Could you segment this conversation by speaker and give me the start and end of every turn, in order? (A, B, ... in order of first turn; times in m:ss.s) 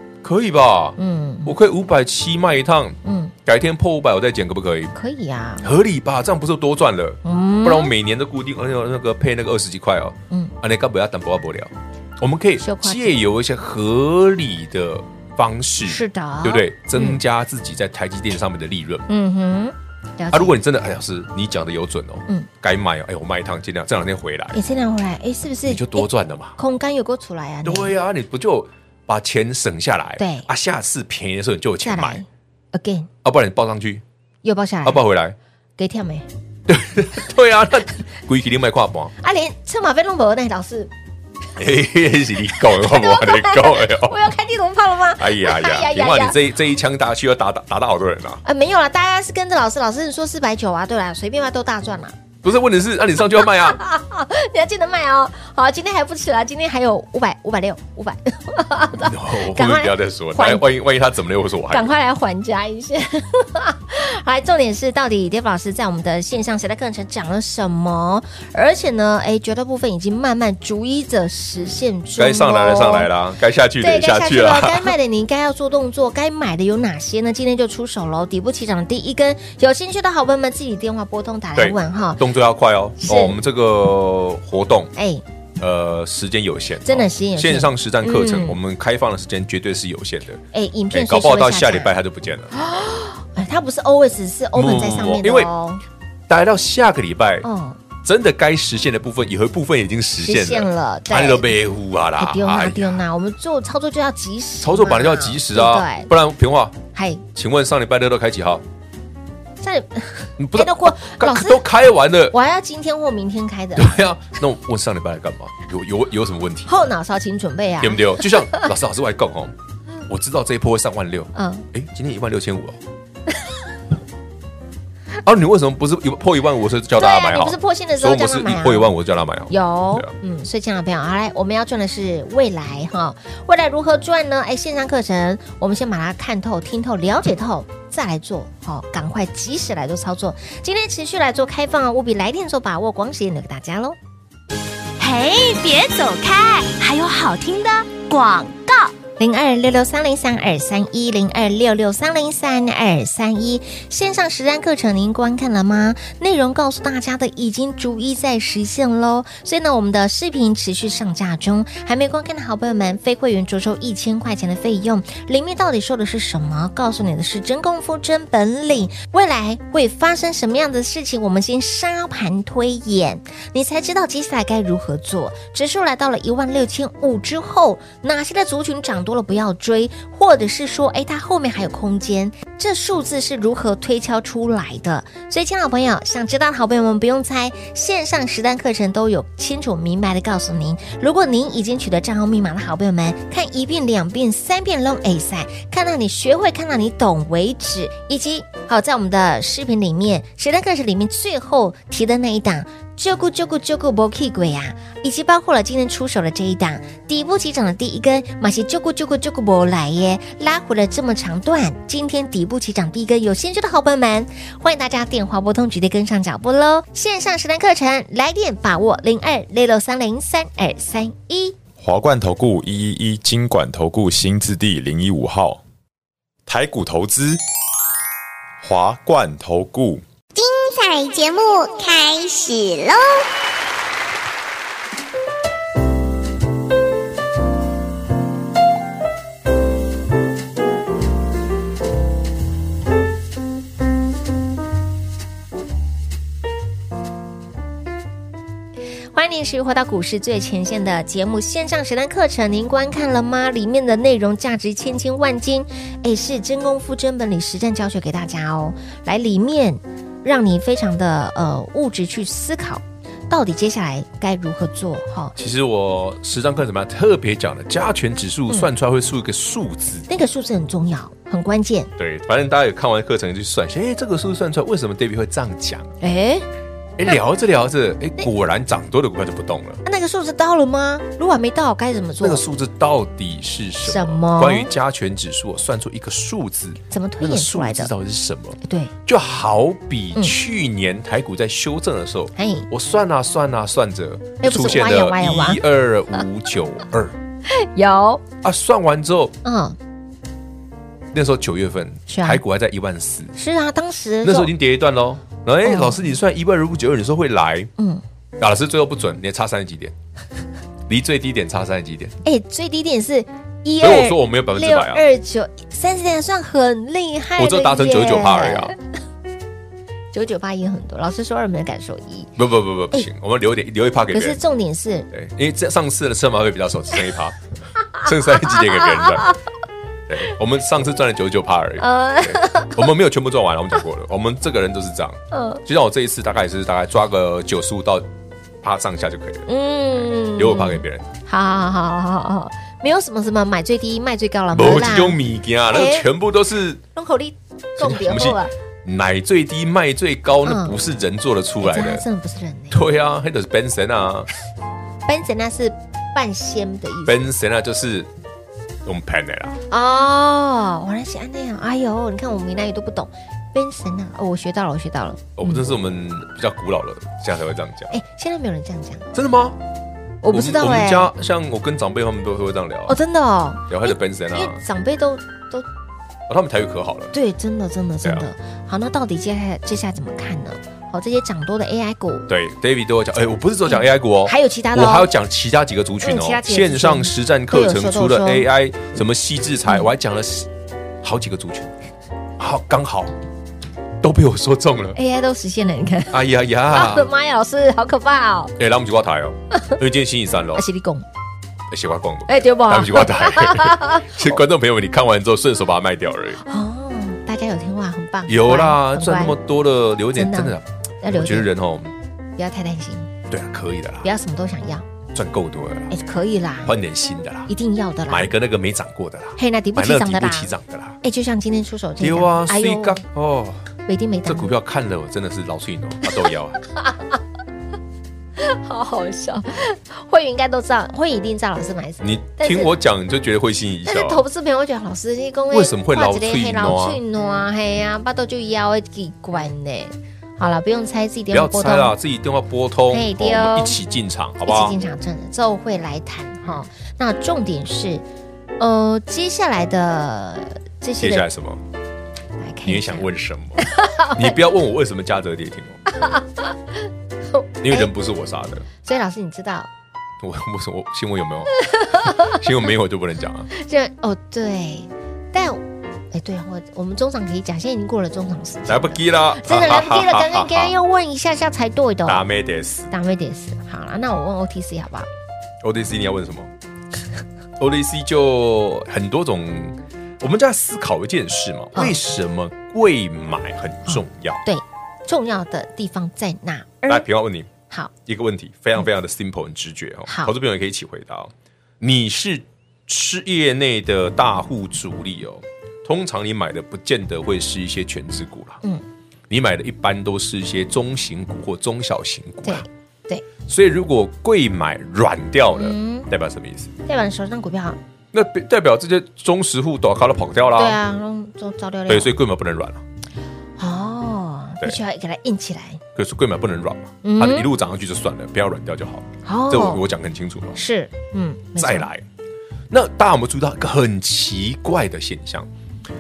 0:00.2-0:04.9 A
0:01.0-0:01.6 B
0:03.0-0:03.3 B
0:05.0-0:05.7 B
0:05.6-0:19.1 A
0:07.2-0:07.9 B
0:12.6-0:13.2 B
0:15.8-0:17.2 B
0:19.1-0:20.6 B
0:20.3-0:24.6 A
0:24.5-0:27.9 B
0:25.7-0:26.6 A
0:27.6-0:32.2 A
0:30.2-0:30.5 B
0:31.8-0:33.1 B
0:33.2-0:34.0 A
0:34.4-0:35.0 B
0:34.8-0:35.4 A
0:35.8-0:36.3 B
0:36.7-0:39.1 A
0:39.2-0:40.9 B
0:41.6-0:44.2 A
0:42.5-0:46.4 B
0:45.2-0:48.4 A
0:48.4-0:52.2 B
0:52.4-0:53.8 A
0:53.4-1:00.6 B
0:59.0-1:01.9 A
1:01.7-1:13.1 B
1:12.2-1:14.9 A
1:13.8-1:22.2 B
1:21.6-1:24.9 A
1:23.0-1:23.4 B
1:25.0-1:25.2 B
1:25.6-1:32.5 A
1:26.8-1:28.6 B
1:30.5-1:32.0 B
1:32.5-1:35.8 B
1:34.6-1:35.5 A
1:36.3-1:37.5 A
1:37.4-1:37.8 B
1:38.0-1:43.0 A
1:40.2-1:41.5 B
1:42.2-1:46.1 B
1:44.6-1:46.8 A
1:46.9-1:47.2 B
1:47.3-1:48.6 A
1:49.6-1:51.6 B
1:50.4-1:52.4 A
1:52.3-1:54.0 B
1:53.8-1:56.8 A
1:56.7-1:58.7 B
1:57.8-1:59.6 A
2:00.1-2:02.8 A
2:01.4-2:01.7 B
2:05.2-2:10.1 A
2:07.0-2:08.9 B
2:09.5-2:24.0 B
2:25.0-2:28.9 C
2:29.2-3:41.6 B
3:41.8-3:45.6 D
3:46.5-3:47.4 D
3:48.6-3:50.0 D
3:50.4-3:53.2 E
4:09.1-4:25.4 B
4:25.4-4:30.1 A
4:30.1-4:31.9 B
4:32.0-4:35.9 A
4:36.0-4:36.5 B
4:37.0-4:39.8 A
4:39.8-4:42.4 B
4:42.2-4:57.2 A
4:43.8-4:44.7 B
4:46.9-4:47.9 B
4:48.6-4:48.9 B
4:52.4-4:52.7 B
4:54.4-4:55.6 B
4:57.5-4:58.2 B
4:58.4-4:59.3 A
4:59.4-4:59.8 B
5:01.1-5:03.3 A
5:02.1-5:02.4 B
5:03.4-5:04.5 B
5:04.2-5:07.7 A
5:05.6-5:06.1 B
5:07.8-5:08.0 B
5:08.4-5:09.9 A
5:10.9-5:12.2 A
5:12.2-5:18.8 B
5:13.8-5:15.0 A
5:17.4-5:18.7 A
5:20.1-5:22.3 B
5:22.4-5:24.4 A
5:24.1-5:25.1 B
5:25.1-5:27.4 A
5:28.0-5:29.4 A
5:28.5-5:29.3 B
5:30.1-5:38.1 A
5:31.8-5:32.9 B
5:35.3-5:35.6 B
5:38.6-5:39.5 A
5:39.5-5:45.2 B
5:40.4-5:41.1 A
5:44.5-5:46.8 A
5:45.7-5:46.1 B
5:46.9-5:48.5 B
5:47.8-5:52.0 A
5:50.4-5:50.8 B
5:51.6-5:52.8 B
5:52.7-5:54.3 A
5:55.1-5:57.2 B
5:57.0-5:58.1 A
5:58.8-5:59.6 A
5:59.7-6:05.7 B
6:05.4-6:08.0 A
6:07.9-6:09.1 B
6:09.1-6:09.6 A
6:10.2-6:11.1 B
6:10.3-6:13.0 A
6:12.9-6:15.7 B
6:13.7-6:14.6 A
6:16.3-6:17.1 A
6:17.1-6:22.3 B
6:22.3-6:30.5 A
6:23.7-6:25.1 B
6:26.0-6:28.5 B
6:31.0-6:31.7 A
6:32.4-6:33.2 A
6:34.0-6:35.0 A
6:35.0-6:38.5 B
6:36.1-6:37.1 A
6:38.6-6:40.6 A
6:40.6-6:41.1 B
6:41.7-6:46.4 A
6:42.3-6:44.2 B
6:46.4-6:49.4 B
6:48.3-6:51.9 A
6:50.2-6:51.5 B
6:52.4-6:53.1 B
6:53.3-6:54.1 A
6:54.0-6:54.9 B
6:55.1-6:55.9 A
6:55.9-6:56.8 B
6:56.6-6:57.5 A
6:57.5-6:58.3 B
6:58.1-7:01.0 A
6:59.4-7:03.0 B
7:02.0-7:03.6 A
7:03.9-7:04.5 B
7:04.3-7:06.6 A
7:06.7-7:07.2 B
7:08.4-7:12.7 B
7:12.0-7:14.2 A
7:13.9-7:22.0 B
7:15.5-7:17.0 A
7:21.3-7:24.8 A
7:22.9-7:23.8 B
7:24.4-7:28.0 B
7:28.6-7:31.3 B
7:31.0-7:31.6 A
7:32.4-7:33.1 B
7:32.6-7:35.8 A
7:33.6-7:34.4 B
7:35.9-7:36.6 B
7:37.3-7:37.9 B
7:37.6-7:38.7 A
7:38.8-7:39.7 B
7:40.2-7:43.5 A
7:41.6-7:42.4 B
7:43.5-7:52.2 B
7:48.7-7:50.7 A
7:52.0-7:52.9 A
7:52.9-7:55.1 B
7:55.6-7:56.5 A
7:57.6-8:04.4 A
8:03.9-8:07.0 B
8:06.9-8:07.5 A
8:08.0-8:18.6 A
8:10.1-8:10.3 B
8:19.3-8:22.7 A
8:22.4-8:23.2 B
8:23.5-8:26.7 A
8:25.5-8:26.1 B
8:26.8-8:27.8 B
8:28.1-8:30.8 A
8:30.6-8:32.1 B
8:31.9-8:32.8 A
8:33.6-8:35.8 B
8:36.0-8:40.6 A
8:37.0-8:37.5 B
8:39.2-8:39.8 B
8:40.6-8:41.9 B
8:41.6-8:42.1 A
8:42.7-8:45.5 A